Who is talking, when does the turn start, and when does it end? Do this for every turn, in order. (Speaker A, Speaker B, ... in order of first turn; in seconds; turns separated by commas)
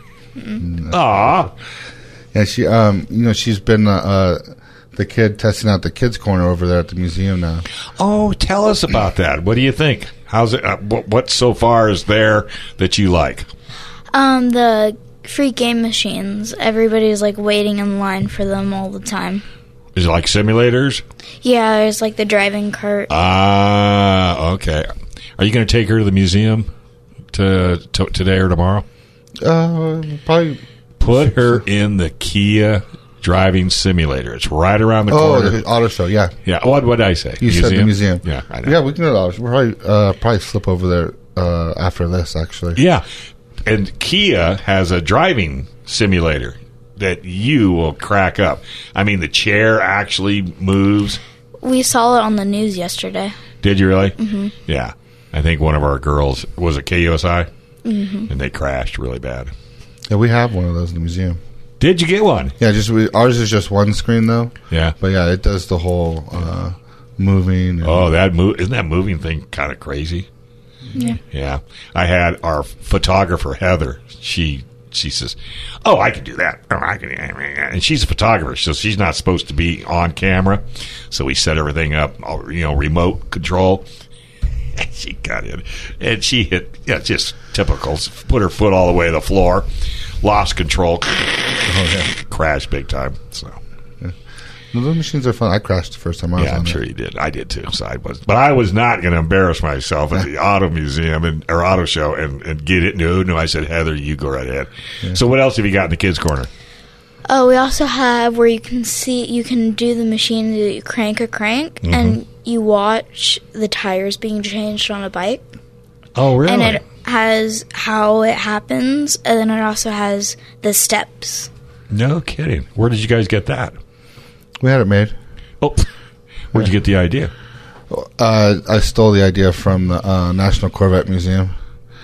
Speaker A: 0.6-1.0, Speaker B: 0.9-1.5, Speaker A: 2.3-7.7, Speaker B: 8.0-13.5, Speaker C: 14.1-19.4, Speaker B: 19.9-21.0, Speaker C: 21.4-23.1, Speaker B: 23.1-26.7, Speaker B: 27.3-28.9, Speaker A: 29.4-31.6, Speaker B: 31.0-35.6, Speaker A: 35.1-36.3, Speaker B: 36.5-38.8, Speaker A: 37.4-42.8, Speaker B: 42.8-43.0, Speaker B: 43.6-51.2, Speaker C: 51.6-53.4, Speaker B: 53.6-57.5, Speaker C: 54.2-54.5, Speaker C: 57.9-58.3, Speaker B: 58.3-59.5, Speaker A: 60.1-61.4, Speaker B: 61.8-62.5, Speaker A: 62.6-68.2, Speaker B: 67.8-70.3, Speaker B: 71.3-83.9, Speaker B: 84.8-89.7, Speaker B: 90.2-91.3, Speaker A: 91.7-92.1, Speaker B: 92.2-93.6, Speaker A: 94.7-96.8, Speaker B: 96.4-106.5, Speaker C: 107.3-115.5, Speaker B: 111.8-112.2, Speaker B: 116.2-116.8, Speaker C: 116.5-121.5, Speaker B: 121.9-123.8, Speaker A: 124.6-125.2, Speaker B: 125.6-125.9, Speaker B: 126.5-127.3, Speaker A: 127.9-131.5